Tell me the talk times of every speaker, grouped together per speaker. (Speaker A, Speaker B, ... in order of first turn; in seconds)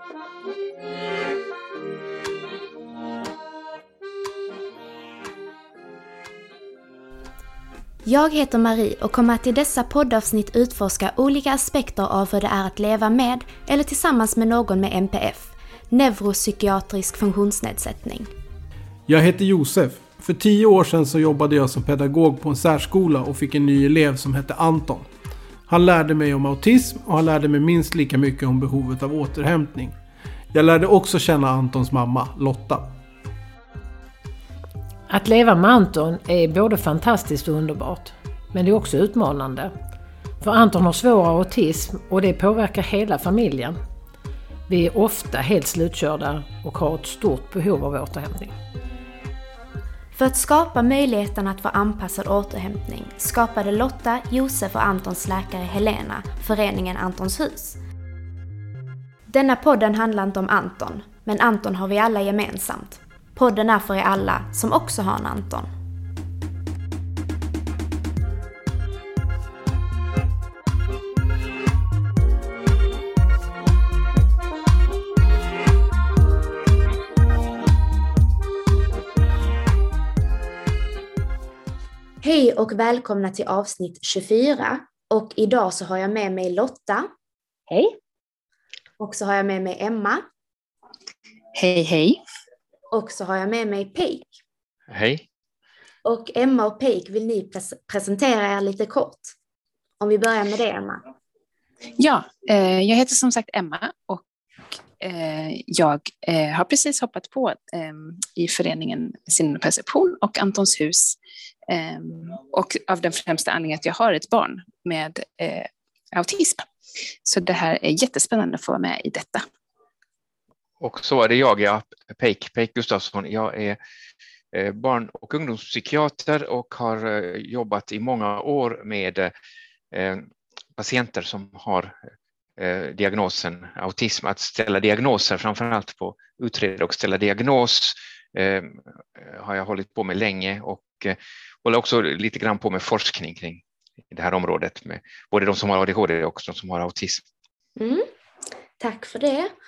Speaker A: 8.0-18.3, 50.1-57.8, 59.3-65.7, 82.2-87.1, 89.0-90.2, 92.9-94.3, 96.0-99.3, 100.0-101.0, 147.8-148.1, 148.8-149.5
Speaker B: 19.1-25.1, 25.7-29.9, 30.5-32.9
Speaker C: 35.1-39.7, 40.4-43.8, 44.7-48.5, 87.7-88.0
Speaker D: 91.5-92.2, 102.0-104.2, 105.0-116.6, 117.2-119.4
Speaker E: 94.9-95.2, 120.8-123.8, 124.5-129.3, 129.9-130.2, 130.8-131.9, 132.6-147.2